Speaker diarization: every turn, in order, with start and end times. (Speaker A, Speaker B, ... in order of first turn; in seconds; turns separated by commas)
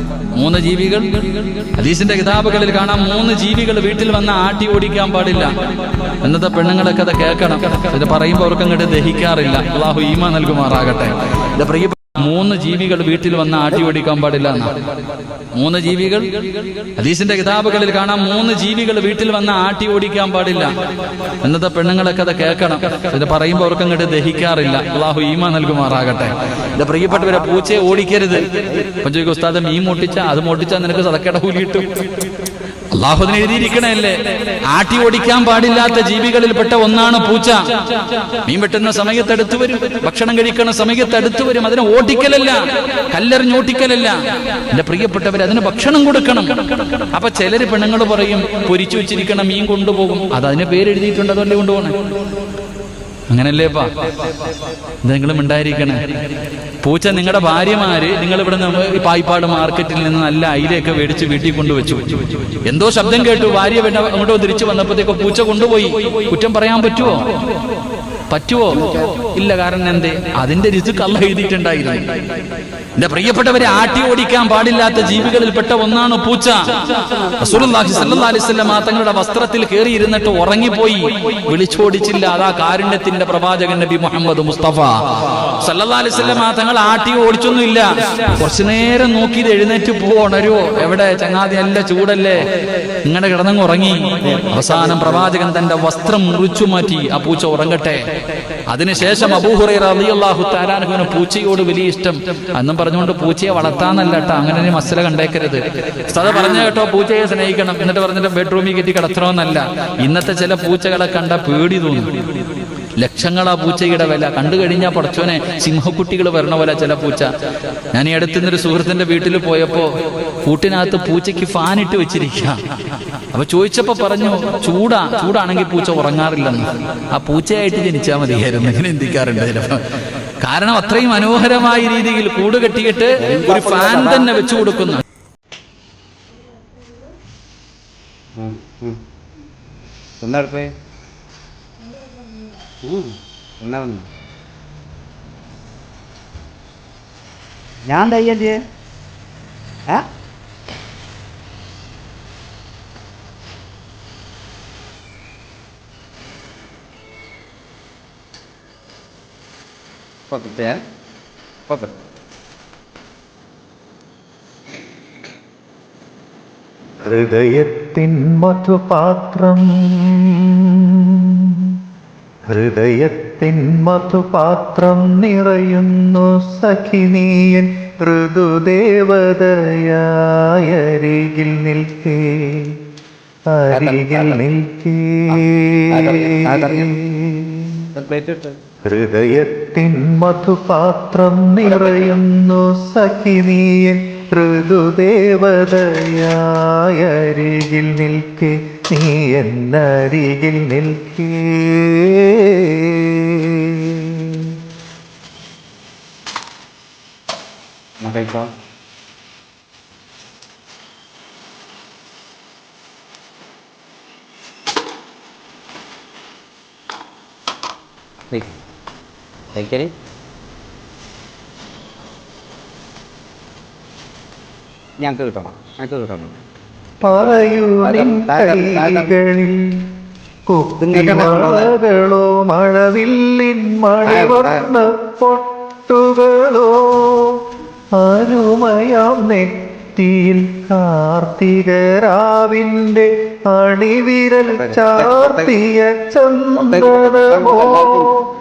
Speaker A: 0.3-1.1, Speaker A: 1.8-5.5, Speaker A: 6.2-14.7, Speaker A: 15.5-16.3, Speaker A: 17.0-20.7, Speaker A: 21.4-32.2, Speaker B: 28.5-28.8, Speaker A: 32.9-37.6, Speaker A: 38.4-44.2, Speaker A: 44.7-51.9, Speaker A: 53.3-53.9, Speaker A: 55.0-56.0, Speaker A: 56.8-62.0, Speaker A: 62.6-67.3, Speaker A: 68.3-72.1, Speaker A: 73.0-92.5, Speaker A: 93.0-98.0, Speaker B: 94.2-95.2, Speaker A: 98.7-112.1, Speaker A: 113.0-117.3, Speaker A: 117.9-119.9, Speaker A: 120.4-122.6, Speaker A: 123.3-135.0, Speaker B: 133.2-134.3, Speaker B: 138.3-139.0, Speaker B: 140.2-140.7, Speaker B: 142.8-144.1, Speaker B: 147.8-148.6, Speaker B: 160.3-160.8, Speaker B: 161.7-161.9, Speaker C: 167.1-171.8, Speaker C: 172.5-182.8, Speaker C: 183.5-187.9, Speaker B: 183.7-184.4, Speaker B: 185.3-186.9, Speaker B: 187.9-188.6, Speaker C: 188.9-204.6, Speaker B: 208.0-208.5, Speaker B: 219.5-219.9, Speaker B: 225.0-226.4, Speaker C: 227.0-229.9, Speaker B: 227.8-229.1, Speaker C: 230.5-237.4, Speaker B: 230.8-231.7, Speaker B: 234.1-234.6, Speaker C: 238.0-248.3, Speaker B: 244.6-245.5, Speaker B: 246.6-248.1